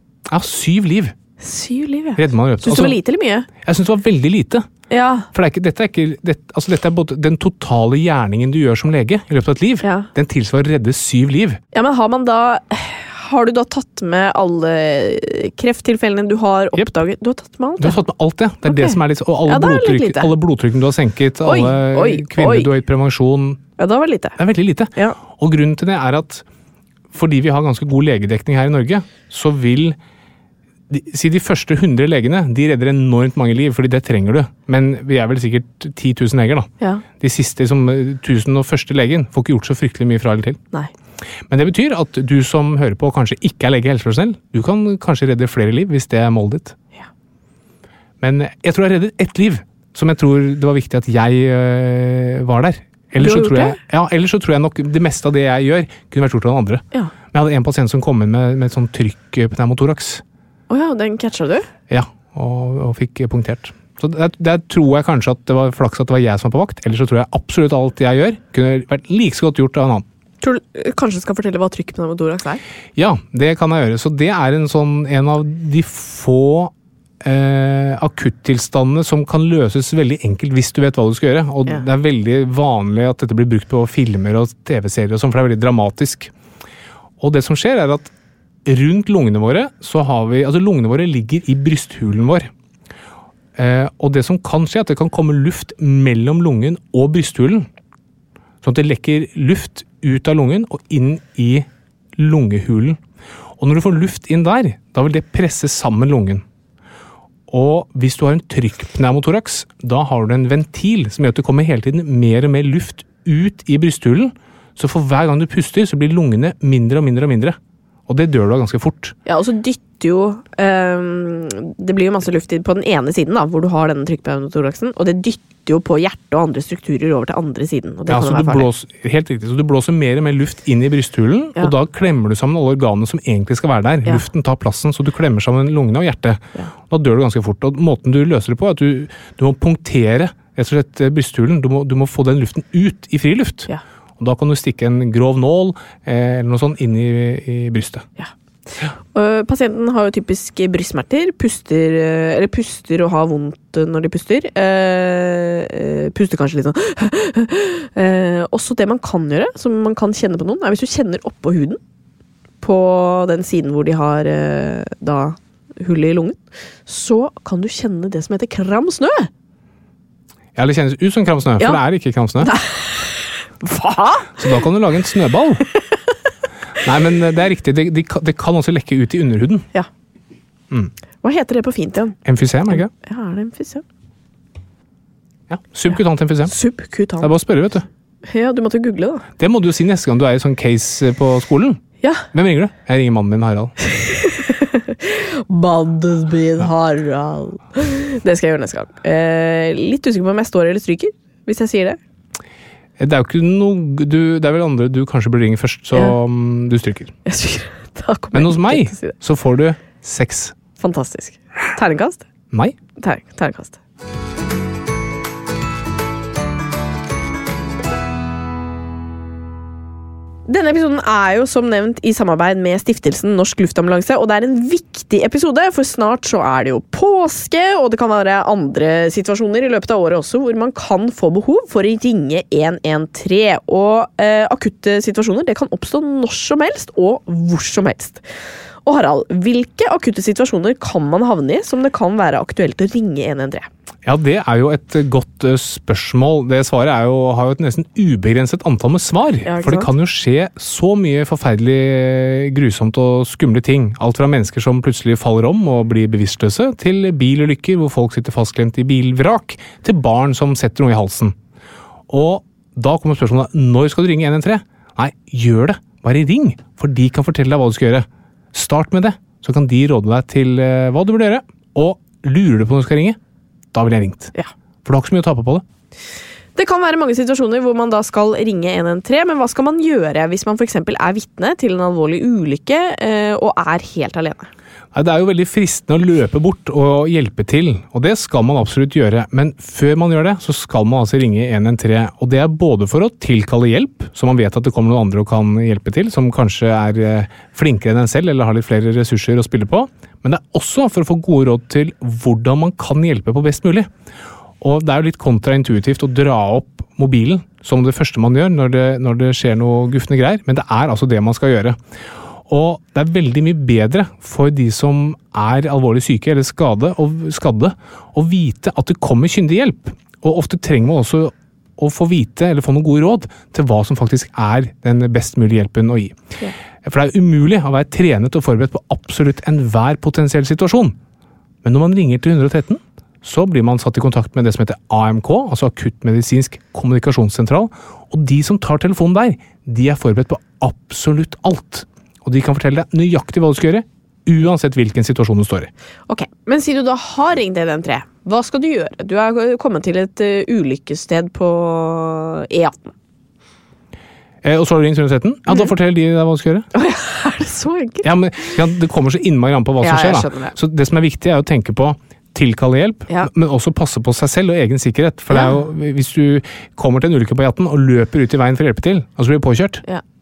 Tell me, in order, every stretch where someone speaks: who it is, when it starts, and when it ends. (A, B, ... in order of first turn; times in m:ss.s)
0:00.3-0:01.1 A
0:01.4-0:03.5 B
0:02.2-0:03.0 A
0:03.6-0:04.6 A
0:04.9-0:05.3 B
0:05.3-0:11.6 A
0:09.8-0:10.1 B
0:11.7-0:18.0 B
0:17.8-0:23.6 A
0:18.7-0:20.3 B
0:21.4-0:22.7 B
0:23.8-0:24.4 B
0:24.4-0:26.4 A
0:27.1-0:30.0 A
0:30.9-0:40.6 A
0:41.5-0:46.8 A
0:48.2-1:00.2 A
0:53.2-0:53.8 B
1:00.7-1:01.7 B
1:01.9-1:10.0 A
1:10.4-1:12.6 B
1:13.0-1:26.3 A
1:27.2-1:28.1 A
1:28.6-1:32.5 A
1:33.6-1:37.7 A
1:38.6-1:43.0 A
1:43.6-1:46.4 A
1:47.5-1:59.2 A
1:59.2-2:08.7 B
2:08.1-2:28.0 A
2:28.8-2:41.8 B
2:42.6-2:49.3 B
2:50.5-2:52.5 A
2:52.4-2:54.4 B
2:54.4-2:55.6 A
2:56.8-2:59.7 A
3:01.2-3:02.2 B
3:02.2-3:02.9 A
3:02.7-3:03.8 B
3:05.5-3:06.5 A
3:06.5-3:07.3 B
3:07.2-3:07.8 A
3:08.2-3:09.2 B
3:09.4-3:13.7 A
3:12.0-3:12.2 B
3:13.8-3:22.0 B
3:23.0-3:27.1 A
3:27.2-3:29.1 B
3:28.3-3:30.5 A
3:30.8-3:32.2 B
3:32.5-3:32.8 A
3:33.0-3:33.8 B
3:40.5-3:58.2 B
3:58.8-4:03.7 B
4:04.0-4:21.4 A
4:09.4-4:09.9 B
4:22.1-4:33.2 A
4:33.7-4:34.3 A
4:34.8-4:35.6 A
4:36.6-4:44.5 B
4:44.9-5:03.9 A
5:04.6-5:11.8 A
5:12.5-5:26.2 A
5:26.8-5:31.0 A
5:31.6-5:45.7 A
5:46.1-5:52.9 B
5:54.4-5:56.6 A
5:56.7-5:58.1 B
5:58.0-6:09.8 A
5:59.8-6:00.5 B